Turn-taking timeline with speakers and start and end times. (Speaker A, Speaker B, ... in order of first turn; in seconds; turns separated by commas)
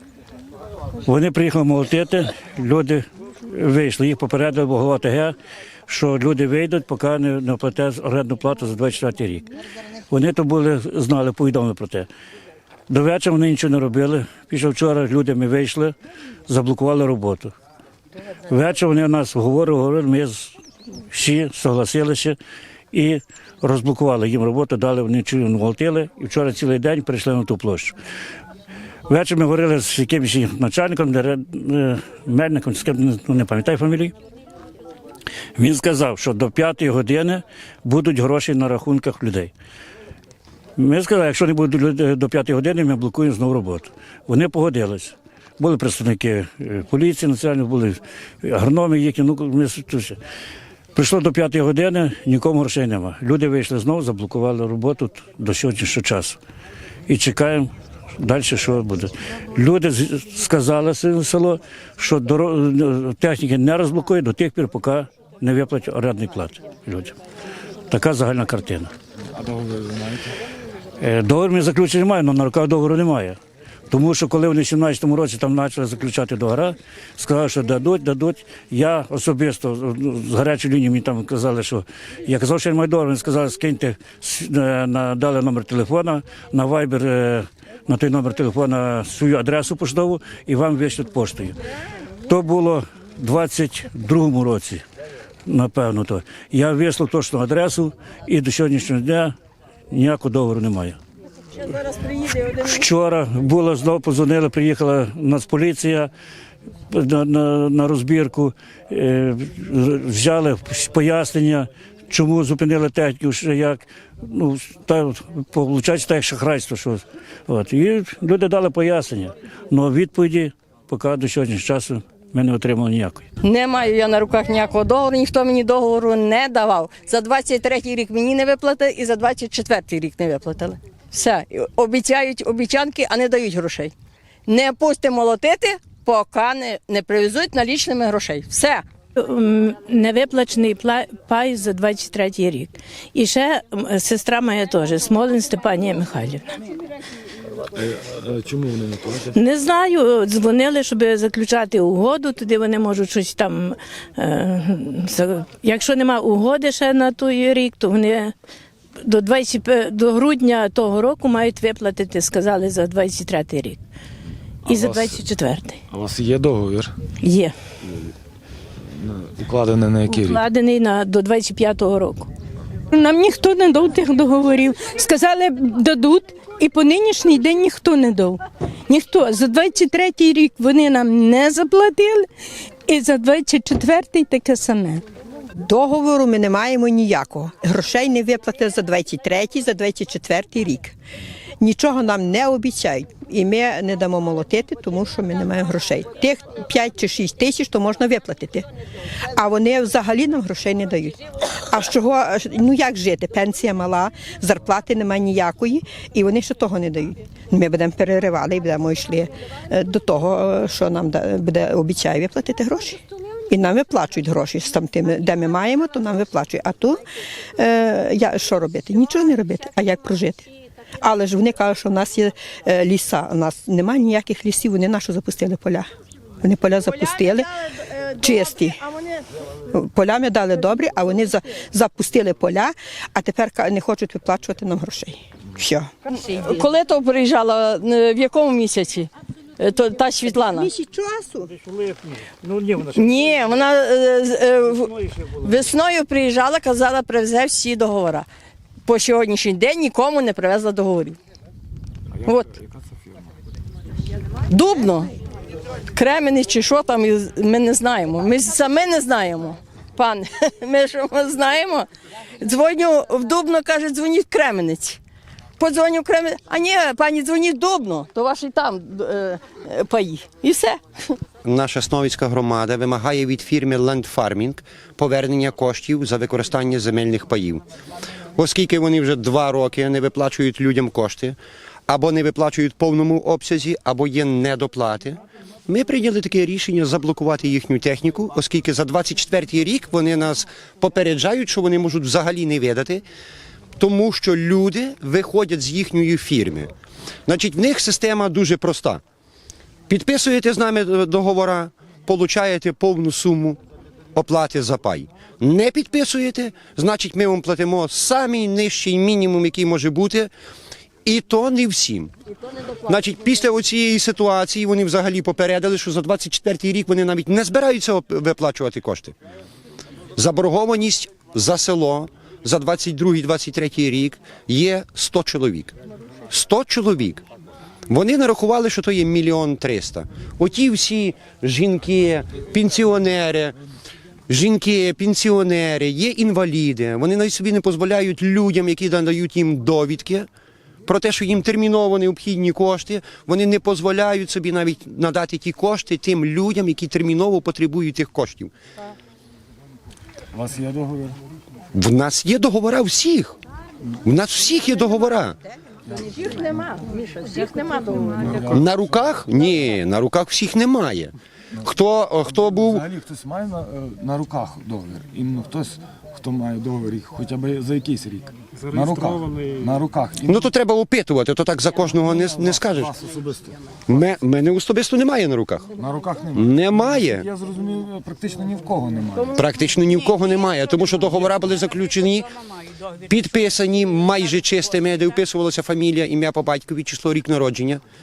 Speaker A: 1.1-5.3, Speaker A: 5.9-9.5, Speaker A: 10.1-12.1, Speaker A: 12.9-15.9, Speaker A: 16.5-17.5, Speaker A: 18.5-20.6, Speaker A: 21.1-22.4, Speaker A: 22.9-27.9, Speaker A: 29.1-34.1, Speaker A: 35.5-39.5, Speaker A: 40.8-50.2, Speaker A: 50.9-56.4, Speaker A: 57.1-67.2, Speaker A: 67.9-68.9, Speaker B: 69.3-70.4, Speaker A: 71.0-73.4, Speaker A: 73.9-91.5, Speaker A: 92.3-94.8, Speaker A: 95.5-99.3, Speaker A: 99.9-101.0, Speaker A: 102.4-106.1, Speaker A: 106.9-123.3, Speaker C: 123.4-133.9, Speaker C: 134.5-138.8, Speaker D: 139.2-146.4, Speaker B: 147.7-149.3, Speaker D: 149.3-158.3, Speaker D: 159.0-163.8, Speaker B: 164.6-165.2, Speaker D: 164.7-165.8, Speaker B: 165.9-166.9, Speaker D: 167.2-167.5, Speaker B: 168.9-170.4, Speaker D: 170.1-172.3, Speaker E: 172.9-182.3, Speaker E: 182.8-185.0, Speaker F: 185.6-190.9, Speaker F: 191.6-198.7, Speaker F: 199.3-217.0, Speaker F: 217.6-220.5, Speaker F: 221.0-225.9, Speaker F: 226.4-227.5, Speaker F: 228.1-228.8, Speaker F: 229.7-235.9, Speaker C: 236.1-240.7, Speaker F: 240.5-241.5, Speaker C: 242.9-248.3, Speaker C: 248.8-251.2, Speaker C: 252.2-252.5, Speaker C: 254.5-255.1, Speaker C: 255.9-261.9, Speaker C: 262.4-265.0, Speaker C: 265.6-271.1, Speaker G: 271.4-277.6, Speaker G: 278.4-281.4, Speaker G: 281.9-293.0, Speaker G: 293.8-296.7, Speaker G: 297.3-299.0, Speaker G: 299.9-303.6, Speaker G: 304.1-310.3, Speaker G: 311.0-312.1, Speaker G: 312.8-319.1, Speaker G: 320.2-325.8, Speaker G: 326.3-327.2, Speaker G: 327.9-333.6, Speaker G: 334.3-340.3, Speaker G: 340.9-348.5, Speaker B: 350.3-351.2, Speaker G: 351.7-353.4, Speaker G: 354.0-355.4, Speaker C: 356.0-358.6, Speaker B: 358.2-358.6, Speaker G: 358.5-361.1, Speaker G: 361.6-362.8, Speaker B: 362.3-370.5, Speaker G: 370.3-372.9, Speaker B: 372.0-373.6, Speaker G: 373.9-375.7, Speaker B: 375.8-379.4, Speaker G: 376.3-377.2, Speaker G: 379.4-382.3, Speaker G: 383.1-387.8